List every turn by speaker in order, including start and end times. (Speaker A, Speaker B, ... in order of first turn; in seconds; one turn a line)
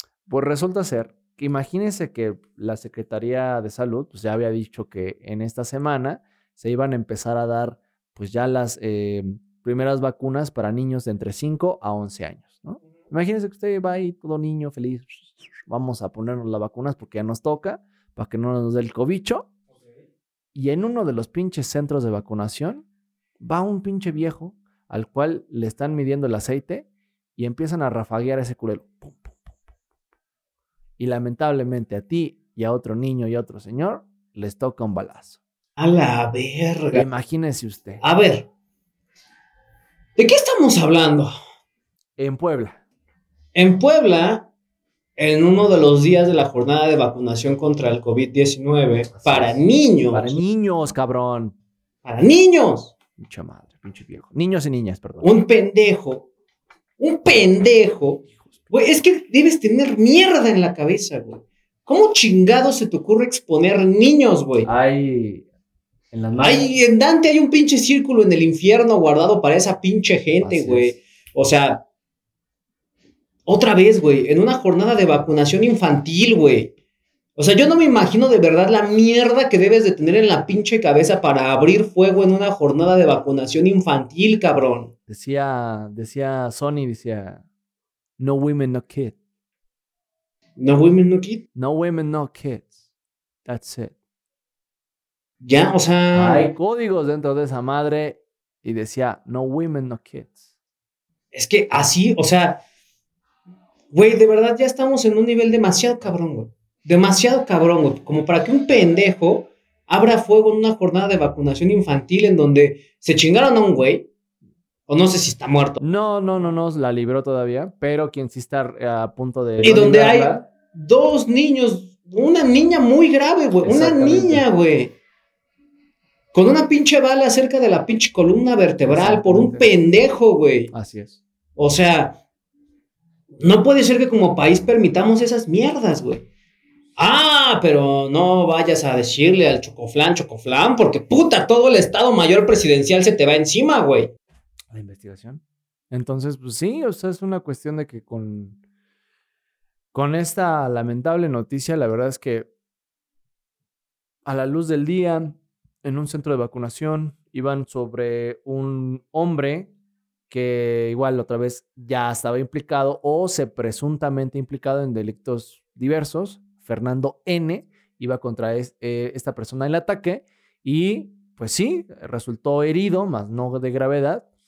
Speaker A: 0.3-19.5
Speaker A: 20.6-22.9
Speaker A: 23.4-29.6
Speaker A: 31.0-35.4
Speaker B: 35.8-37.0
Speaker A: 36.9-38.0
Speaker B: 38.0-38.5
Speaker B: 40.2-41.3
Speaker A: 42.2-42.8
Speaker B: 43.5-44.5
Speaker B: 45.2-50.4
Speaker A: 49.2-49.6
Speaker A: 50.1-51.5
Speaker B: 52.0-52.9
Speaker A: 53.2-55.3
Speaker B: 55.2-56.3
Speaker B: 57.0-64.7
Speaker A: 64.7-65.5
Speaker A: 66.1-66.7
Speaker B: 66.4-71.8
Speaker A: 70.4-71.0
Speaker B: 73.5-76.7
Speaker B: 77.4-84.9
Speaker A: 85.1-87.4
Speaker A: 88.2-89.2
Speaker B: 90.6-91.4
Speaker A: 91.5-92.7
Speaker A: 93.5-93.9
Speaker B: 95.4-96.5
Speaker A: 96.1-100.4
Speaker B: 101.3-102.6
Speaker B: 103.9-114.1
Speaker B: 114.9-115.8
Speaker A: 115.8-120.5
Speaker B: 119.6-124.9
Speaker A: 123.6-124.5
Speaker B: 126.3-130.7
Speaker A: 128.8-129.8
Speaker A: 130.7-131.2
Speaker B: 131.6-132.2
Speaker B: 133.4-136.3
Speaker B: 137.0-144.1
Speaker A: 144.7-148.6
Speaker A: 149.9-152.5
Speaker A: 154.3-159.7
Speaker A: 160.3-174.2